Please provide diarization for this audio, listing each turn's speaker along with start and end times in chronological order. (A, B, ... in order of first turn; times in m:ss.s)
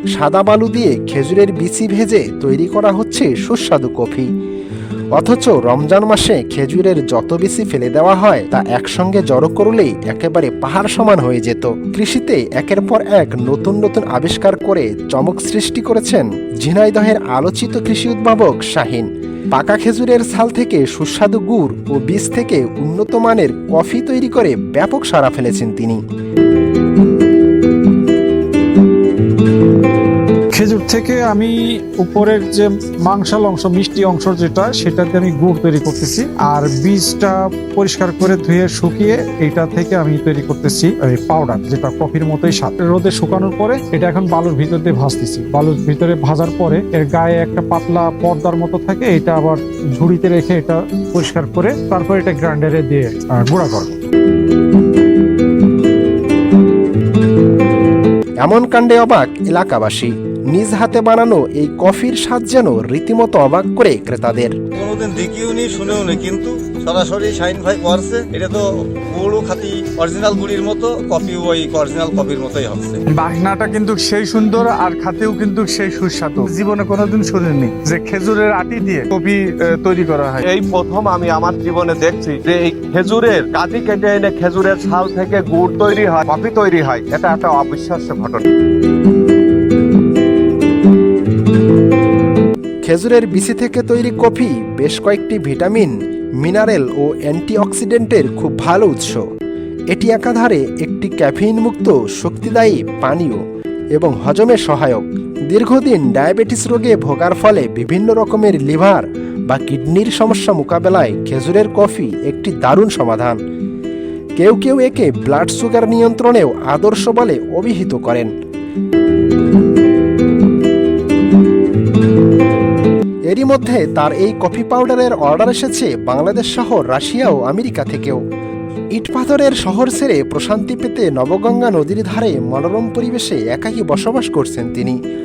0:00.1-0:04.3 A
0:05.2-0:26.0 A
0:30.5-0:54.0 B
0:58.4-1:04.6 A
1:04.7-1:13.0 C
1:13.2-1:19.4 D
1:13.6-1:19.1 B
1:19.9-1:20.3 B
1:20.0-1:20.4 D
1:20.4-1:28.4 E
1:32.9-1:39.2 A
1:39.9-1:43.4 A
1:44.0-1:53.4 A
1:54.4-1:58.3 A
2:03.3-2:08.2 A
2:08.9-2:15.0 A